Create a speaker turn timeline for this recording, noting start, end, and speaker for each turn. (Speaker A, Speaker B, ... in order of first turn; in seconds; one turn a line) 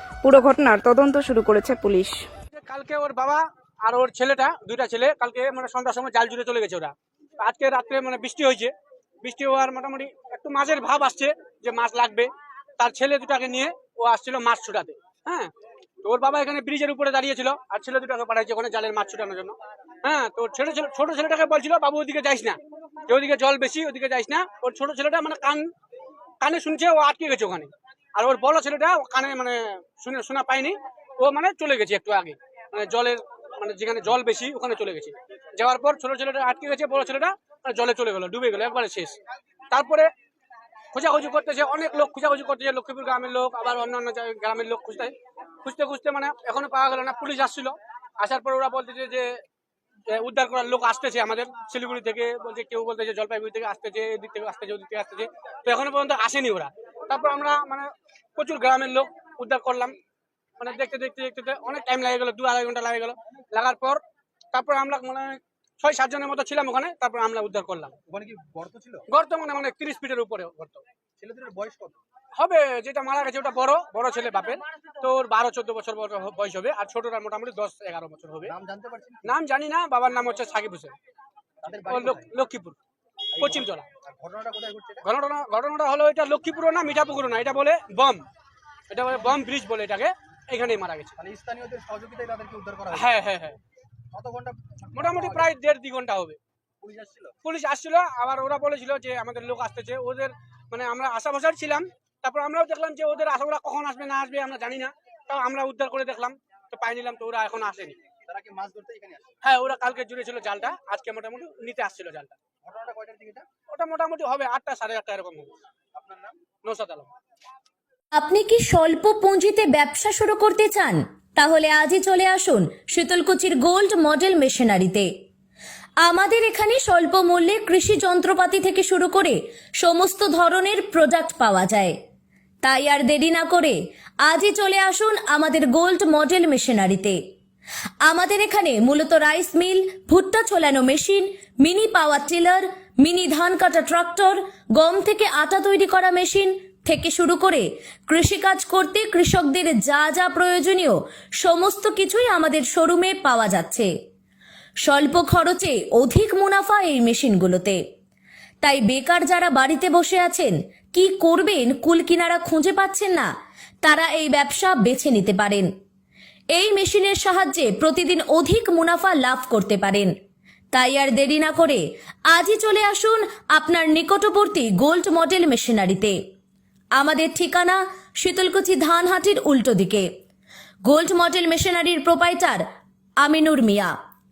Speaker A: 0.2-2.2
Speaker B: 2.5-8.7
Speaker B: 9.2-15.5
Speaker B: 16.0-25.7
Speaker B: 26.4-39.2
Speaker B: 39.7-40.1
Speaker B: 40.9-49.3
Speaker B: 50.1-59.9
Speaker B: 60.6-64.0
Speaker B: 64.5-68.0
Speaker C: 68.1-69.0
Speaker B: 69.1-70.8
Speaker C: 71.2-72.0
Speaker B: 72.3-78.5
Speaker C: 78.5-79.3
Speaker B: 79.3-80.9
Speaker C: 81.6-82.3
Speaker B: 81.9-82.8
Speaker C: 83.3-85.0
Speaker B: 83.4-83.9
Speaker B: 85.0-88.2
Speaker B: 88.9-91.1
Speaker C: 91.2-93.1
Speaker B: 92.9-93.6
Speaker C: 94.1-95.5
Speaker B: 95.0-96.4
Speaker C: 96.8-97.3
Speaker B: 97.4-108.0
Speaker C: 108.2-109.3
Speaker B: 109.4-112.3
Speaker C: 112.7-113.5
Speaker B: 113.7-115.5
Speaker C: 115.9-116.3
Speaker B: 116.6-117.1
Speaker D: 118.1-125.1
Speaker D: 126.0-131.9
Speaker D: 132.6-137.2
Speaker D: 138.0-153.9
Speaker D: 154.8-157.8
Speaker D: 158.6-163.3
Speaker D: 163.8-165.7
Speaker D: 166.5-170.1
Speaker D: 170.7-176.2
Speaker D: 176.9-180.1
Speaker D: 180.8-182.6
Speaker D: 183.2-183.9